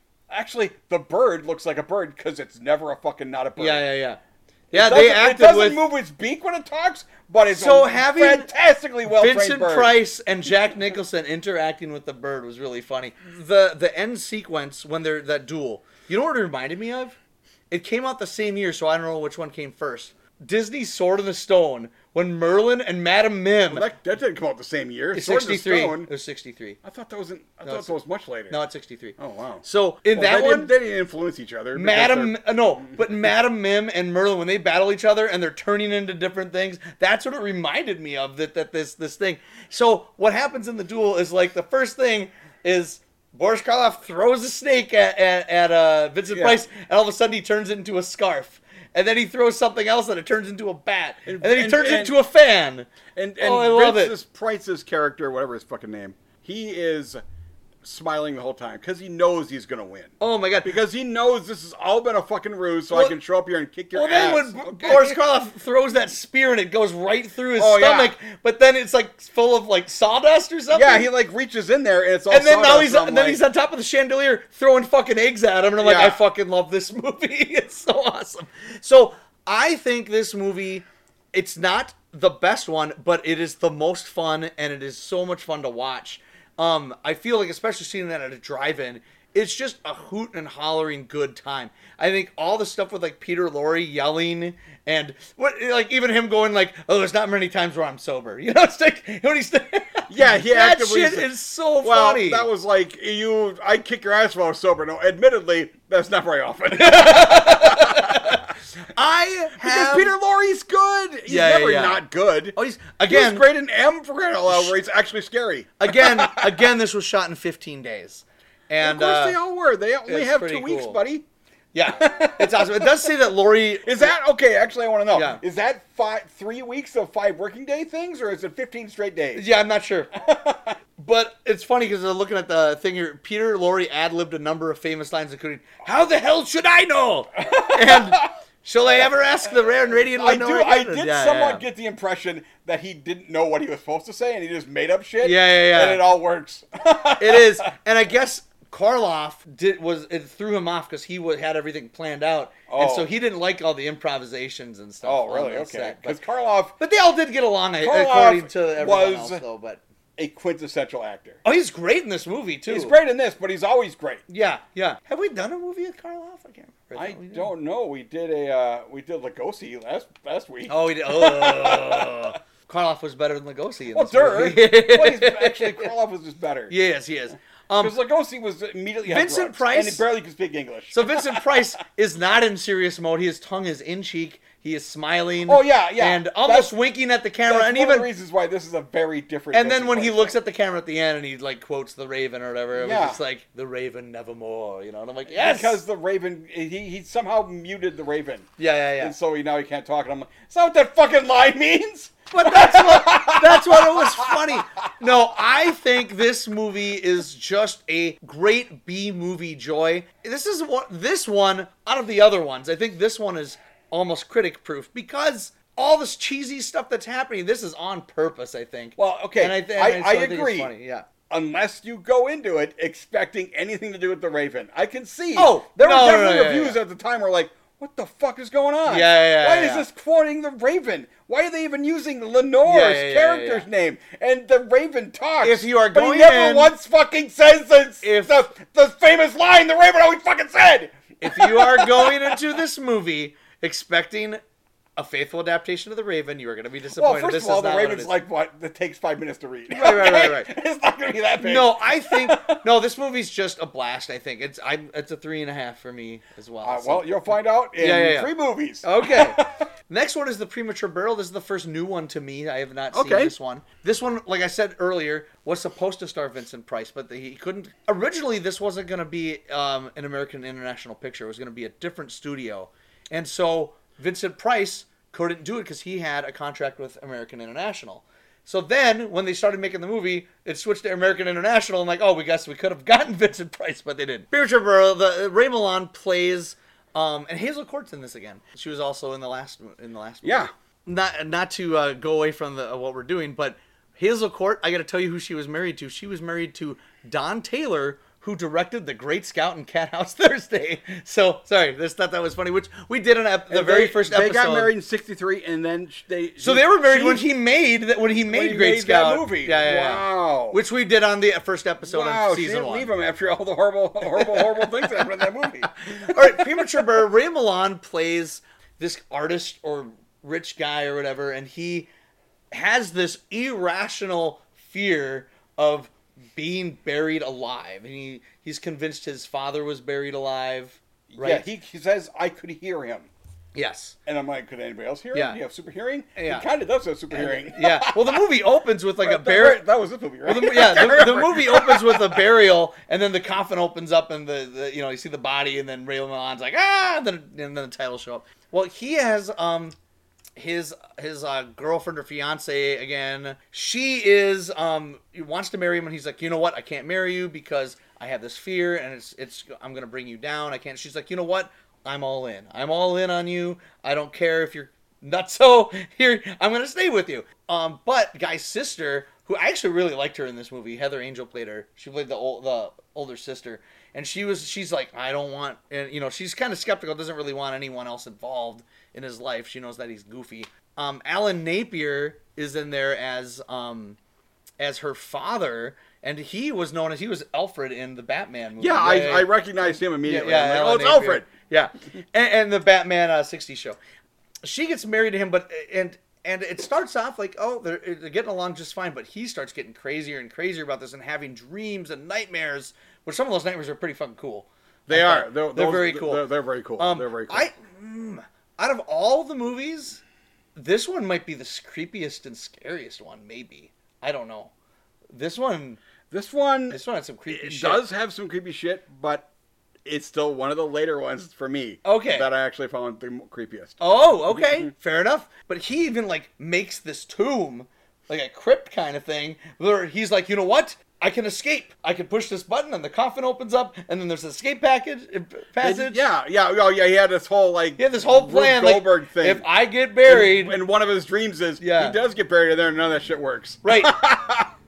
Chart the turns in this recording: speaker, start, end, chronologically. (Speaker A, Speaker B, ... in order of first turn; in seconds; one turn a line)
Speaker A: 0.3-3.9
Speaker B: 3.6-4.2
Speaker B: 4.7-5.8
Speaker A: 4.7-10.0
Speaker B: 7.5-8.5
Speaker B: 9.1-17.2
Speaker B: 17.7-23.9
Speaker A: 23.7-26.1
Speaker B: 25.1-26.8
Speaker A: 26.8-28.6
Speaker B: 27.6-27.9
Speaker B: 28.5-30.7
Speaker A: 29.2-33.0
Speaker B: 31.7-52.9
Speaker A: 46.3-46.7
Speaker A: 51.3-52.2
Speaker A: 53.1-57.2
Speaker B: 53.4-54.1
Speaker A: 57.8-65.2
Speaker B: 60.2-60.8
Speaker B: 63.9-71.1
Speaker A: 67.6-68.2
Speaker A: 70.7-73.4
Speaker B: 72.3-102.5
Speaker A: 75.8-76.2
Speaker A: 100.1-101.3
Speaker A: 101.8-108.4
Speaker B: 106.8-110.1
Speaker A: 109.6-112.6
Speaker B: 111.3-112.0
Speaker B: 112.5-113.5
Speaker A: 113.1-116.7
Speaker B: 114.5-114.8
Speaker B: 115.8-119.4
Speaker A: 118.8-121.3
Speaker B: 120.1-121.0
Speaker B: 121.7-124.1
Speaker A: 122.0-123.1
Speaker A: 123.8-129.4
Speaker B: 125.1-125.4
Speaker B: 129.3-130.1
Speaker A: 130.2-130.8
Speaker B: 131.0-141.6
Speaker A: 137.4-138.3
Speaker A: 139.9-147.6
Speaker B: 145.2-146.0
Speaker B: 147.2-156.2
Speaker A: 152.7-153.1
Speaker A: 155.0-156.8
Speaker B: 156.8-159.8
Speaker A: 157.8-159.4
Speaker A: 160.2-161.4
Speaker B: 161.4-162.9
Speaker A: 162.7-164.2
Speaker B: 164.3-167.5
Speaker A: 166.9-172.3
Speaker B: 170.7-175.9
Speaker A: 173.9-176.7
Speaker B: 176.7-177.9
Speaker A: 177.8-181.6
Speaker B: 179.1-180.0
Speaker B: 180.9-188.1
Speaker A: 185.5-186.7
Speaker A: 187.5-190.4
Speaker B: 189.5-195.8
Speaker A: 192.8-193.2
Speaker A: 195.3-204.6
Speaker B: 198.6-199.2
Speaker B: 202.3-221.1
Speaker A: 219.0-220.7
Speaker A: 221.3-242.4
Speaker B: 225.4-226.8
Speaker B: 228.9-229.9
Speaker B: 232.7-233.7
Speaker B: 235.4-236.7
Speaker B: 238.0-238.3
Speaker B: 241.2-244.4
Speaker B: 245.0-248.1
Speaker A: 246.9-252.6
Speaker B: 249.7-250.5
Speaker B: 251.4-258.3
Speaker A: 256.6-259.6
Speaker B: 258.8-304.7
Speaker A: 262.9-263.3
Speaker A: 290.2-290.5
Speaker A: 303.5-307.2
Speaker B: 306.4-312.9
Speaker A: 308.3-310.6
Speaker A: 311.9-316.9
Speaker B: 314.1-315.1
Speaker B: 315.7-321.9
Speaker B: 322.5-331.5
Speaker A: 331.1-333.1
Speaker B: 333.6-333.9
Speaker A: 334.1-338.2
Speaker B: 335.1-335.4
Speaker B: 336.1-336.5
Speaker B: 337.1-339.6
Speaker A: 339.0-342.2
Speaker B: 340.2-349.8
Speaker B: 350.4-384.0
Speaker B: 384.6-393.8
Speaker A: 388.6-391.3
Speaker B: 394.4-406.2
Speaker A: 404.9-407.5
Speaker B: 406.8-410.0
Speaker B: 410.6-414.5
Speaker B: 415.1-415.8
Speaker A: 416.1-419.3
Speaker B: 416.7-417.8
Speaker A: 419.9-424.7
Speaker B: 421.9-422.3
Speaker B: 423.8-436.0
Speaker A: 435.6-439.5
Speaker B: 437.8-440.6
Speaker A: 440.1-444.5
Speaker B: 441.6-442.0
Speaker B: 443.6-443.9